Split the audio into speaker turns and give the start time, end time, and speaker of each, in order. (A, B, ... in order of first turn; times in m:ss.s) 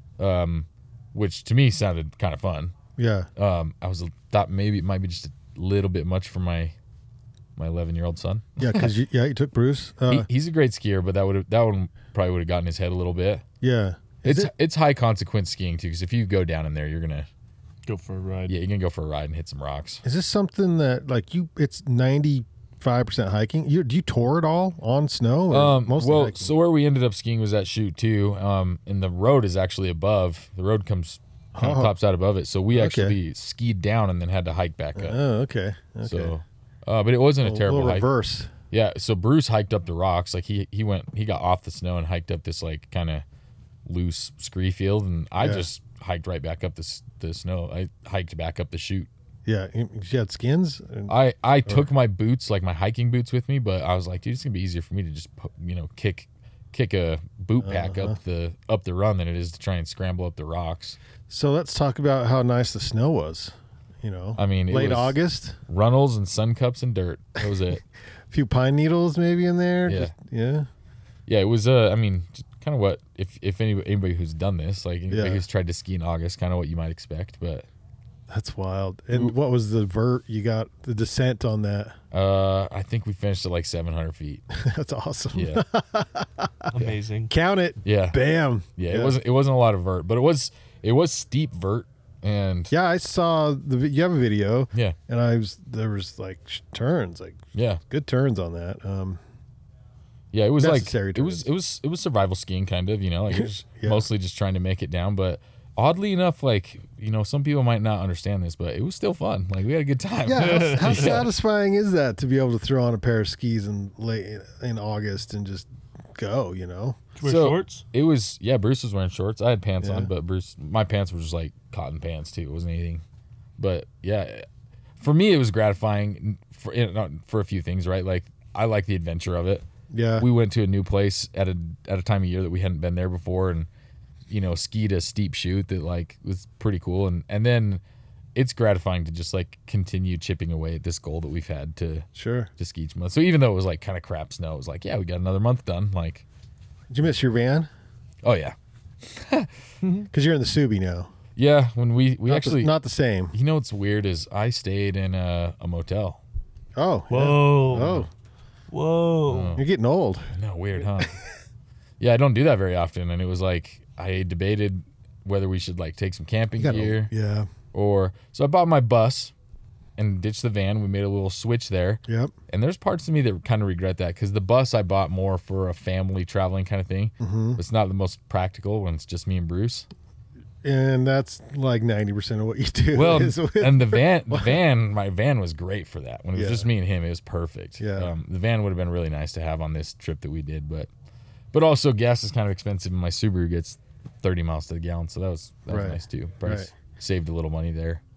0:00.2-0:02.8 A
0:03.0-0:03.3 B
0:03.4-0:06.8 A
0:07.6-0:08.9 A
0:08.6-0:10.3 B
0:10.1-0:13.4 A
0:13.6-0:14.5 B
0:14.2-0:17.3 A
0:17.9-0:18.5 C
0:18.5-0:20.0 A
0:20.0-0:26.5 B
0:25.5-0:35.2 A
0:31.6-0:32.0 B
0:32.7-0:33.2 B
0:35.0-0:36.3 B
0:36.0-0:38.1 A
0:37.4-0:38.5 B
0:38.7-0:43.2 A
0:43.8-0:49.1 A
0:45.4-0:45.7 B
0:49.5-0:51.1 B
0:51.1-1:01.0 A
0:57.6-0:58.2 B
1:01.3-1:05.6 B
1:04.4-1:07.8 A
1:08.3-1:10.7 B
1:09.8-1:10.1 A
1:11.3-1:17.7 A
1:15.1-1:15.4 B
1:18.3-1:22.0 B
1:22.1-1:24.4 A
1:24.6-1:29.2 B
1:25.3-1:25.6 A
1:26.7-1:27.3 C
1:27.8-1:28.2 A
1:28.8-1:32.7 A
1:32.7-1:39.2 B
1:37.5-1:37.8 A
1:40.3-1:51.3 A
1:40.6-1:41.5 B
1:43.3-1:44.0 B
1:50.3-1:57.0 B
1:50.3-1:51.2 C
1:57.2-1:57.8 C
1:57.2-2:03.0 A
1:59.8-2:00.1 B
2:03.6-2:04.4 A
2:05.0-2:09.6 A
2:09.9-2:10.3 B
2:10.2-2:13.7 A
2:14.3-2:17.8 A
2:18.4-2:26.2 A
2:22.2-2:22.5 B
2:26.9-2:27.7 B
2:28.2-2:29.5 A
2:30.1-2:31.1 B
2:31.4-2:32.8 A
2:32.3-2:33.3 B
2:33.3-2:36.2 A
2:36.8-2:38.1 B
2:37.1-2:38.0 C
2:37.7-2:38.1 A
2:38.7-2:39.6 C
2:39.3-2:39.6 A
2:39.6-2:40.3 B
2:40.4-2:41.2 A
2:42.0-2:47.1 A
2:46.6-2:47.5 B
2:47.7-2:49.3 A
2:50.0-2:59.9 A
2:52.1-2:52.3 B
2:57.2-2:57.6 B
3:00.6-3:04.6 B
3:02.9-3:10.9 A
3:06.4-3:06.7 B
3:07.8-3:08.1 B
3:11.5-3:18.0 A
3:15.7-3:16.7 B